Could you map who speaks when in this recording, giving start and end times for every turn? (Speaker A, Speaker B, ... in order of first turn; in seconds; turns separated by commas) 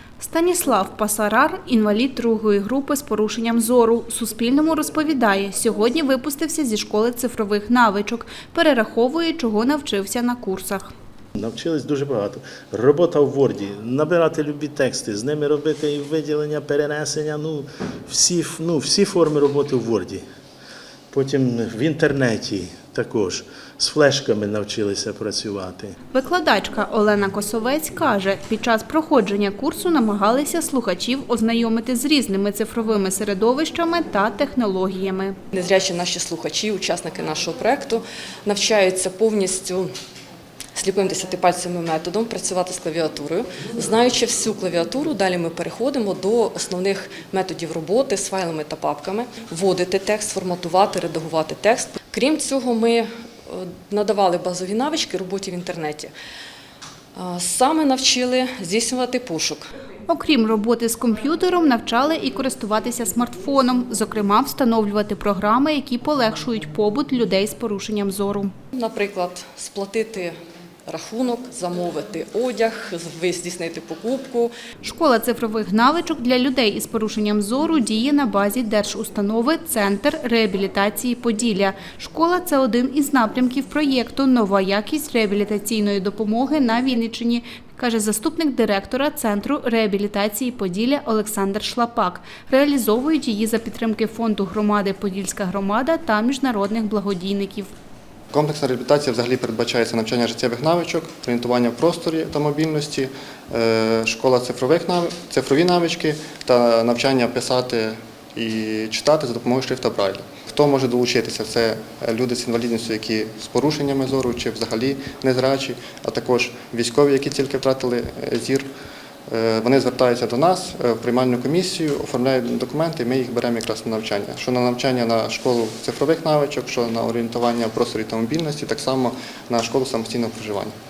Speaker A: 0.2-10.9, Speaker B: 11.3-20.2, Speaker B: 21.1-25.9, Speaker A: 26.1-35.3, Speaker C: 35.5-39.9, Speaker C: 40.7-56.1, Speaker C: 57.1-59.7, Speaker A: 60.1-68.5, Speaker C: 68.7-70.3, Speaker C: 70.9-74.5, Speaker A: 74.8-97.7, Speaker D: 98.3-118.7, Speaker D: 119.3-130.7